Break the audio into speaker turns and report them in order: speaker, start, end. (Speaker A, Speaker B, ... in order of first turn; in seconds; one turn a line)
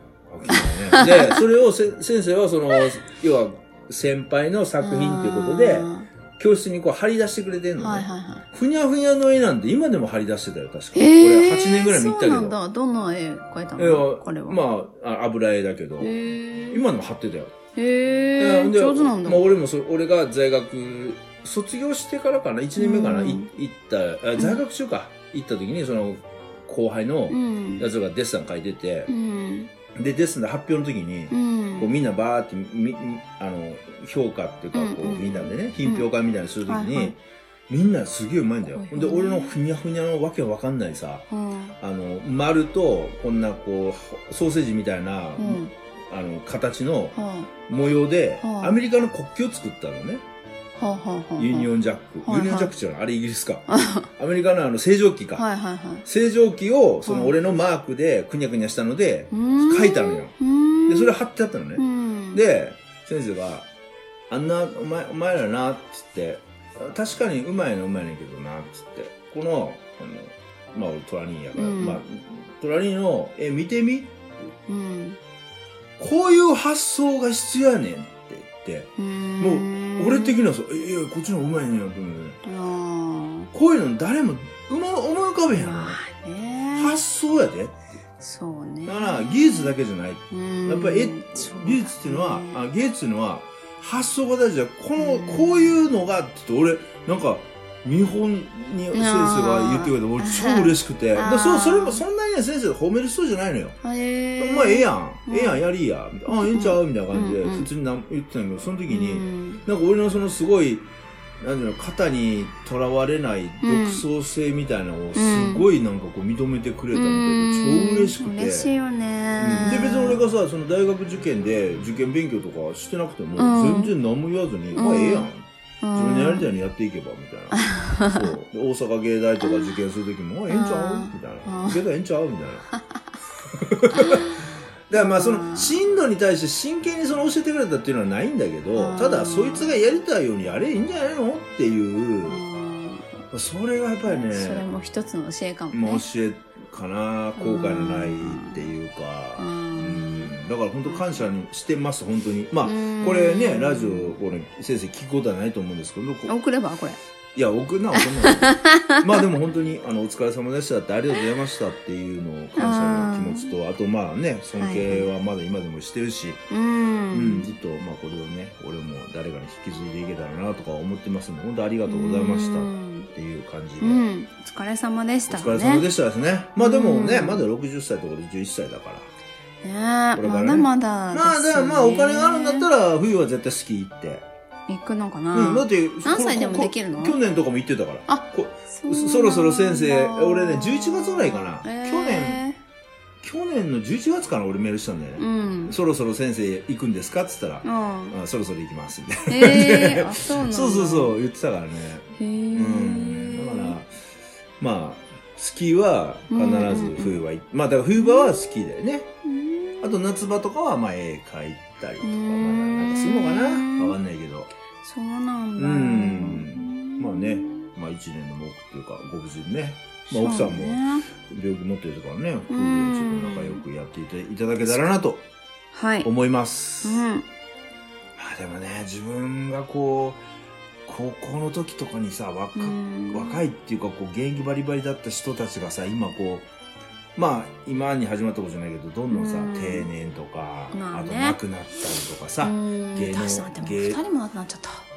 Speaker A: 0.2-12.6
Speaker B: 0.5-1.4
Speaker B: 4.8-6.1
Speaker B: 7.8-8.4
Speaker B: 10.9-14.6
Speaker A: 13.8-16.1
Speaker B: 16.0-16.9
Speaker A: 16.7-17.5
Speaker B: 17.8-19.5
Speaker A: 18.4-29.1
Speaker B: 22.8-23.5
Speaker B: 27.3-27.9
Speaker B: 29.1-29.7
Speaker A: 29.9-37.1
Speaker B: 31.3-31.9
Speaker B: 34.7-36.1
Speaker B: 36.6-37.1
Speaker A: 37.7-41.2
Speaker B: 38.7-39.5
Speaker B: 41.3-41.8
Speaker A: 41.8-50.2
Speaker B: 45.4-45.7
Speaker B: 47.1-47.5
Speaker B: 48.4-48.8
Speaker B: 50.8-51.7
Speaker A: 51.4-53.6
Speaker B: 52.2-52.7
Speaker B: 53.7-54.1
Speaker A: 54.2-55.4
Speaker B: 55.4-56.0
Speaker A: 56.0-60.3
Speaker B: 57.0-57.3
Speaker B: 59.3-61.1
Speaker A: 60.9-63.7
Speaker B: 61.8-62.4
Speaker A: 64.3-74.2
Speaker B: 71.5-72.0
Speaker B: 74.7-75.2
Speaker A: 76.0-82.4
Speaker B: 79.0-80.4
Speaker B: 82.4-83.5
Speaker A: 83.5-86.0
Speaker B: 85.5-87.0
Speaker A: 86.7-87.8
Speaker B: 88.2-89.7
Speaker A: 88.8-103.8
Speaker B: 90.3-92.6
Speaker B: 95.0-95.8
Speaker B: 98.9-102.0
Speaker B: 103.8-105.6
Speaker A: 104.4-110.9
Speaker B: 106.3-107.7
Speaker B: 108.9-109.6
Speaker A: 111.4-118.7
Speaker B: 113.6-114.0
Speaker B: 115.1-115.7
Speaker B: 116.9-120.2
Speaker A: 119.4-132.7
Speaker B: 123.4-123.9
Speaker B: 124.7-125.3
Speaker B: 125.8-126.5
Speaker B: 127.5-128.3
Speaker B: 129.4-129.7
Speaker B: 130.5-131.8
Speaker A: 133.5-142.4
Speaker B: 133.9-135.8
Speaker B: 138.7-139.8
Speaker B: 142.3-143.1
Speaker A: 143.3-144.6
Speaker B: 144.1-146.0
Speaker A: 145.7-156.3
Speaker B: 147.3-148.7
Speaker B: 149.4-150.3
Speaker B: 150.9-151.2
Speaker B: 152.6-154.1
Speaker B: 156.3-157.0
Speaker A: 157.3-166.4
Speaker B: 158.0-159.2
Speaker B: 162.6-163.5
Speaker B: 164.6-165.1
Speaker B: 166.5-167.5
Speaker A: 167.1-174.0
Speaker B: 171.8-173.1
Speaker B: 173.8-175.8
Speaker A: 175.3-179.1
Speaker B: 176.6-177.4
Speaker B: 179.6-182.7
Speaker A: 180.2-184.2
Speaker B: 184.7-187.2
Speaker A: 185.3-192.4
Speaker B: 188.1-192.6
Speaker A: 193.2-203.9
Speaker B: 195.2-195.8
Speaker B: 197.6-198.2
Speaker B: 199.3-201.2
Speaker B: 202.1-203.8
Speaker A: 204.6-209.1
Speaker B: 206.3-207.2
Speaker B: 207.9-208.6
Speaker B: 209.2-210.0
Speaker A: 209.8-214.5
Speaker B: 212.0-213.9
Speaker B: 214.8-217.7
Speaker A: 215.6-225.2
Speaker B: 220.1-221.1
Speaker B: 222.5-223.6
Speaker B: 225.7-226.1
Speaker A: 226.0-227.0
Speaker B: 226.8-227.3
Speaker A: 228.2-230.2
Speaker A: 230.8-236.5
Speaker B: 232.6-233.4
Speaker A: 237.1-244.0
Speaker B: 239.1-239.9
Speaker B: 240.7-241.4
Speaker B: 242.4-244.8